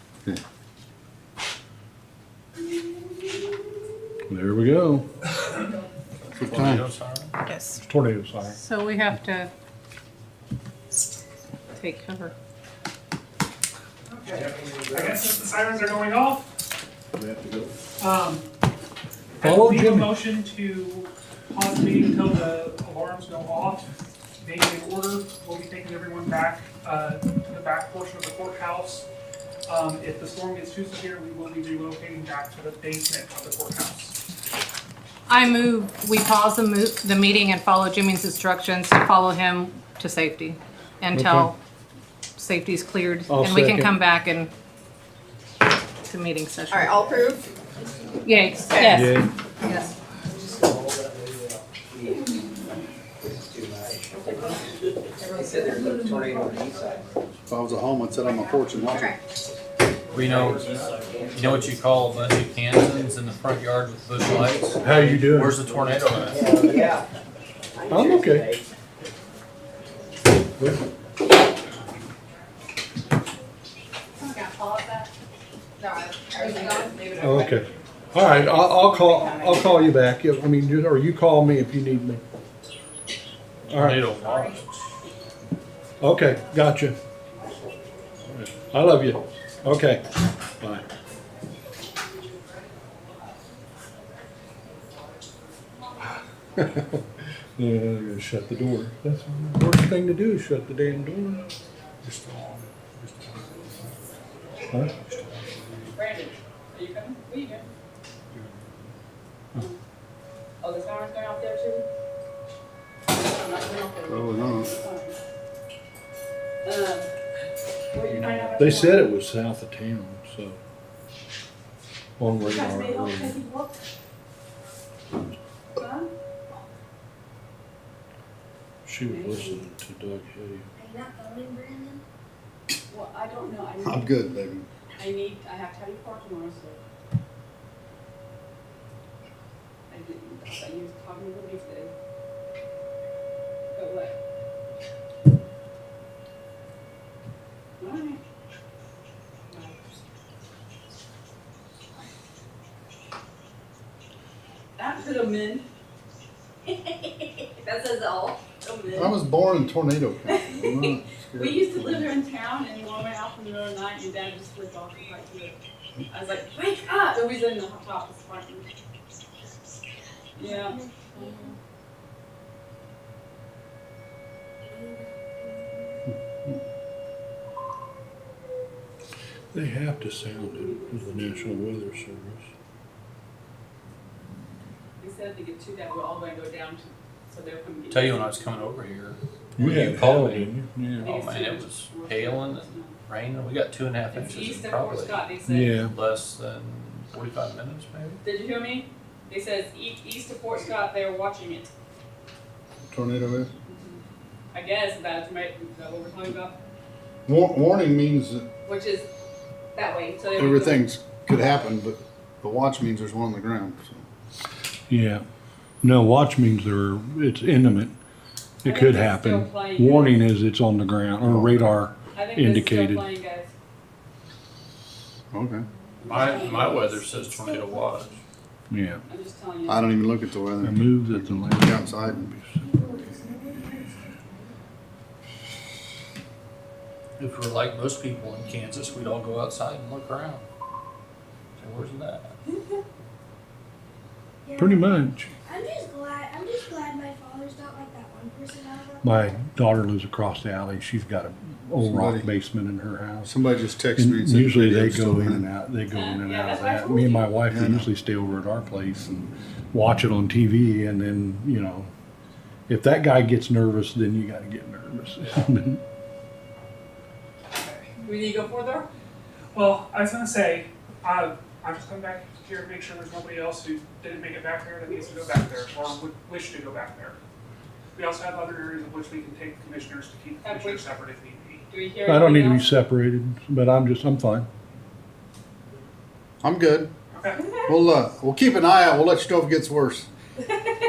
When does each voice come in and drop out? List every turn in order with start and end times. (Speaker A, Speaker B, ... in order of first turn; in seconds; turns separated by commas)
Speaker A: 4.3-5.1, Speaker B: 6.4-6.9, Speaker C: 6.4-7.3, Speaker D: 7.4-7.8, Speaker A: 7.8-8.6, Speaker D: 8.6-9.5, Speaker D: 11.7-12.3, Speaker E: 14.1-16.5, Speaker F: 14.4-15.2, Speaker F: 17.2-17.7, Speaker E: 18.0-18.5, Speaker E: 19.4-23.9, Speaker A: 19.4-20.2, Speaker E: 24.4-29.1, Speaker E: 29.7-34.2, Speaker D: 35.3-41.5, Speaker A: 41.1-41.5, Speaker D: 42.4-44.5, Speaker A: 43.3-44.0, Speaker D: 46.0-47.1, Speaker G: 46.8-47.4, Speaker D: 48.2-49.9, Speaker G: 48.8-49.0, Speaker A: 48.9-49.3, Speaker F: 50.5-51.3, Speaker F: 53.3-54.3, Speaker H: 55.2-56.2, Speaker F: 55.3-57.2, Speaker B: 57.5-59.2, Speaker C: 60.1-60.7, Speaker F: 60.3-61.5, Speaker C: 61.3-66.8, Speaker A: 64.8-65.6, Speaker F: 66.3-67.0, Speaker F: 67.8-68.6, Speaker A: 67.9-68.5, Speaker A: 70.6-70.8, Speaker H: 74.2-75.1, Speaker G: 75.8-77.5, Speaker H: 76.3-77.4, Speaker A: 77.2-82.2, Speaker A: 83.7-84.1, Speaker C: 83.7-84.9, Speaker A: 86.0-87.0, Speaker A: 88.3-90.1, Speaker A: 96.6-97.0, Speaker A: 97.6-101.5, Speaker C: 102.0-104.1, Speaker A: 104.7-105.0, Speaker C: 105.0-105.9, Speaker H: 105.9-107.7, Speaker C: 108.3-108.7, Speaker H: 110.6-111.8, Speaker H: 113.1-115.2, Speaker B: 114.1-114.7, Speaker H: 116.6-117.1, Speaker H: 117.9-119.1, Speaker A: 118.5-120.6, Speaker A: 122.2-123.4, Speaker H: 122.4-123.8, Speaker H: 125.7-126.1, Speaker A: 128.8-130.7, Speaker H: 129.0-129.7, Speaker I: 130.8-132.0, Speaker H: 132.9-134.1, Speaker B: 133.8-134.7, Speaker H: 135.0-136.8, Speaker H: 139.9-141.9, Speaker H: 143.7-144.2, Speaker H: 147.8-148.2, Speaker H: 149.5-149.8, Speaker H: 154.8-155.7, Speaker H: 156.7-159.2, Speaker B: 158.9-162.2, Speaker H: 160.2-165.6, Speaker H: 166.1-168.7, Speaker H: 170.3-171.5, Speaker I: 170.4-171.6, Speaker I: 174.6-176.0, Speaker A: 179.5-182.5, Speaker H: 180.8-181.1, Speaker H: 185.0-188.3, Speaker C: 187.9-195.2, Speaker A: 189.6-191.2, Speaker H: 191.0-193.0, Speaker H: 194.1-195.8, Speaker A: 195.5-195.9, Speaker C: 195.8-198.2, Speaker H: 198.2-201.7, Speaker B: 202.9-203.5, Speaker H: 203.7-204.0, Speaker H: 204.5-206.6, Speaker B: 207.3-208.5, Speaker H: 208.7-209.1, Speaker H: 209.8-210.9, Speaker B: 210.3-214.0, Speaker A: 214.9-215.2, Speaker A: 215.8-217.9, Speaker A: 218.6-223.1, Speaker H: 218.6-220.2, Speaker B: 221.2-221.7, Speaker H: 222.1-223.5, Speaker B: 225.3-225.7, Speaker C: 226.0-228.2, Speaker H: 226.1-226.8, Speaker A: 228.7-229.0, Speaker H: 229.1-229.9, Speaker B: 229.7-232.3, Speaker A: 230.6-232.7, Speaker I: 233.1-233.5, Speaker C: 237.2-240.4, Speaker C: 241.6-242.3, Speaker I: 244.4-249.3, Speaker A: 244.6-245.3, Speaker A: 249.0-253.3, Speaker B: 251.8-252.3, Speaker B: 253.2-255.4, Speaker A: 253.9-261.9, Speaker H: 255.9-257.3, Speaker B: 257.5-257.9, Speaker A: 262.7-265.8, Speaker H: 268.0-268.9, Speaker E: 269.5-277.2, Speaker E: 277.9-281.6, Speaker H: 280.4-280.8, Speaker H: 281.7-282.7, Speaker A: 282.1-284.5, Speaker B: 286.4-286.9, Speaker E: 287.1-287.4, Speaker H: 287.3-287.6, Speaker B: 287.6-290.1